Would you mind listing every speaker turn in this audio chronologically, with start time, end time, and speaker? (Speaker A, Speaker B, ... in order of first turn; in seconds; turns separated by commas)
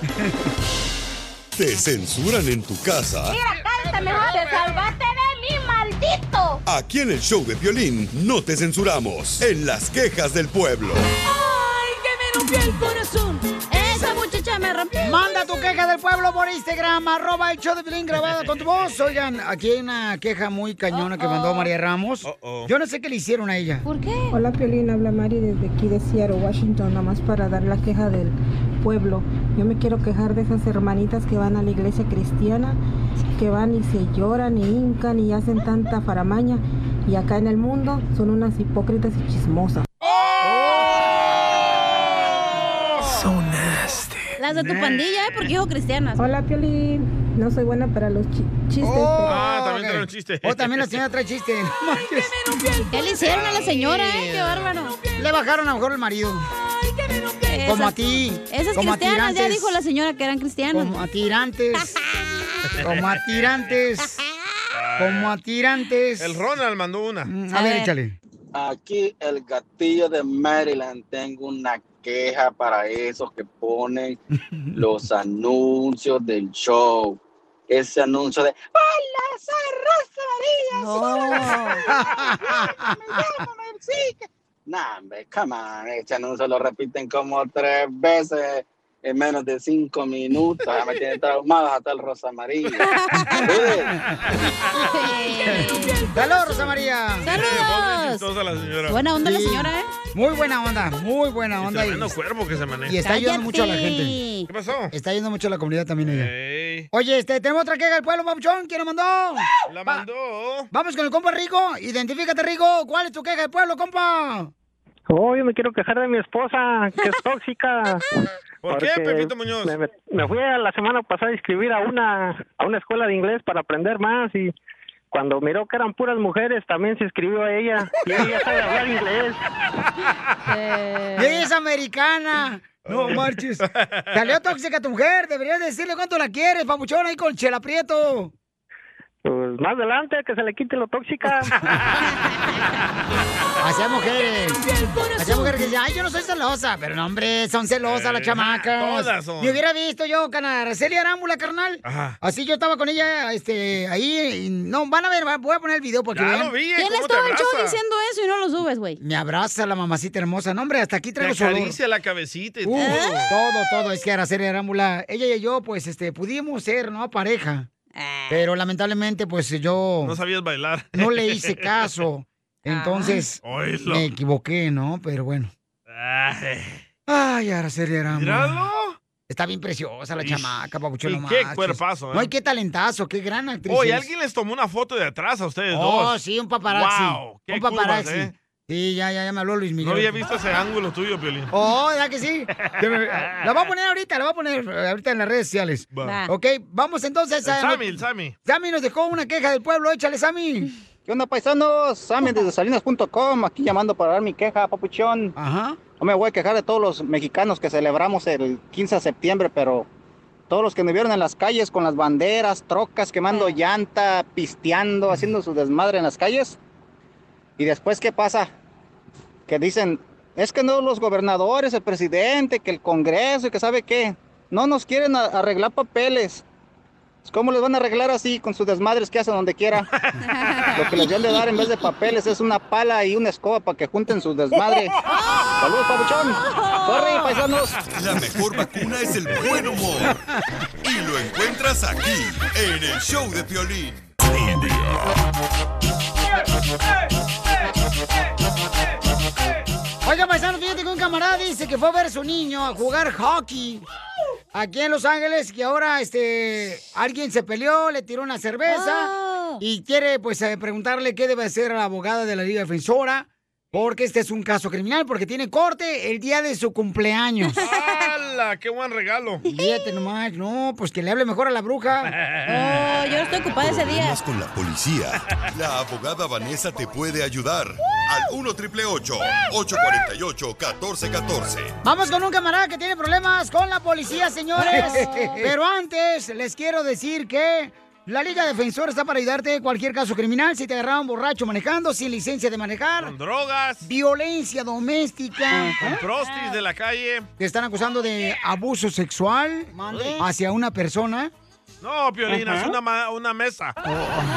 Speaker A: 1.6-3.4, Speaker B: 3.3-6.6, Speaker A: 6.7-11.0, Speaker C: 12.3-15.3, Speaker D: 15.0-23.9, Speaker C: 20.9-21.7, Speaker E: 22.2-22.7, Speaker C: 23.8-24.4, Speaker F: 24.3-32.8, Speaker F: 33.3-39.9, Speaker E: 40.4-41.2, Speaker E: 42.2-43.3, Speaker C: 44.4-46.2, Speaker F: 46.2-49.4, Speaker D: 48.8-52.3, Speaker E: 49.2-51.0, Speaker C: 52.9-55.0, Speaker D: 55.2-56.4, Speaker C: 57.4-61.0, Speaker D: 57.6-59.7, Speaker D: 60.7-62.0, Speaker D: 62.8-64.2, Speaker E: 62.8-63.5, Speaker E: 64.7-65.3, Speaker D: 65.0-66.4, Speaker E: 66.2-67.3, Speaker D: 67.2-68.2, Speaker C: 67.5-67.9, Speaker G: 68.5-74.2, Speaker G: 74.7-78.7, Speaker F: 78.9-81.7, Speaker C: 80.7-81.8, Speaker D: 81.9-83.1, Speaker G: 84.7-92.8, Speaker C: 93.0-93.5, Speaker G: 93.4-93.9, Speaker C: 94.9-96.0, Speaker D: 96.1-97.3, Speaker C: 97.2-98.2, Speaker E: 97.2-99.0, Speaker C: 98.9-99.9, Speaker D: 99.2-102.1, Speaker E: 101.6-103.0, Speaker D: 102.9-104.2, Speaker C: 103.0-104.5, Speaker E: 104.5-104.9, Speaker D: 104.9-106.3, Speaker E: 106.0-106.9, Speaker D: 106.9-110.0, Speaker E: 109.7-110.7, Speaker D: 110.7-114.5, Speaker H: 115.1-118.0, Speaker E: 118.6-119.8, Speaker H: 118.7-124.5, Speaker H: 125.1-129.3, Speaker C: 130.4-131.5, Speaker D: 131.2-138.3, Speaker E: 132.8-134.4, Speaker H: 139.2-141.4, Speaker E: 141.6-141.9, Speaker D: 143.6-144.6, Speaker D: 145.2-156.5, Speaker E: 147.8-149.6, Speaker E: 151.8-152.2, Speaker E: 156.1-157.8, Speaker C: 156.8-159.0, Speaker D: 159.0-161.7, Speaker E: 161.2-163.3, Speaker D: 162.6-167.7, Speaker C: 162.8-163.3, Speaker C: 167.9-168.4, Speaker D: 168.3-170.2, Speaker E: 170.0-171.9, Speaker D: 170.9-175.5, Speaker C: 172.7-173.2, Speaker E: 173.4-174.1, Speaker E: 175.9-176.8, Speaker D: 177.1-178.6, Speaker E: 178.1-179.0, Speaker D: 179.3-184.1, Speaker E: 180.2-182.3, Speaker E: 183.7-188.3, Speaker D: 185.7-190.1, Speaker E: 189.8-191.5, Speaker D: 191.5-197.9, Speaker C: 196.0-196.3, Speaker E: 197.4-198.3, Speaker D: 198.4-200.7, Speaker G: 201.1-205.3, Speaker D: 205.4-205.8, Speaker G: 206.0-209.9, Speaker G: 210.5-216.6, Speaker C: 213.3-213.6, Speaker G: 217.6-218.5, Speaker G: 219.5-226.4, Speaker G: 227.2-229.8, Speaker G: 230.8-234.9, Speaker C: 235.1-235.5, Speaker G: 235.6-237.8, Speaker C: 236.4-237.3, Speaker A: 237.9-240.2, Speaker A: 240.8-245.1, Speaker D: 250.0-253.8, Speaker D: 254.5-267.6, Speaker C: 258.7-259.6, Speaker C: 267.5-267.9, Speaker E: 267.6-269.4, Speaker C: 269.4-269.8, Speaker D: 269.5-272.1, Speaker E: 272.2-272.7, Speaker C: 272.5-274.2, Speaker A: 273.6-281.7, Speaker D: 281.8-293.1, Speaker C: 284.7-285.3, Speaker E: 293.0-293.8, Speaker D: 293.8-295.8, Speaker E: 295.8-297.3, Speaker C: 296.2-296.6, Speaker D: 297.4-301.3, Speaker E: 299.8-300.2, Speaker E: 301.8-303.8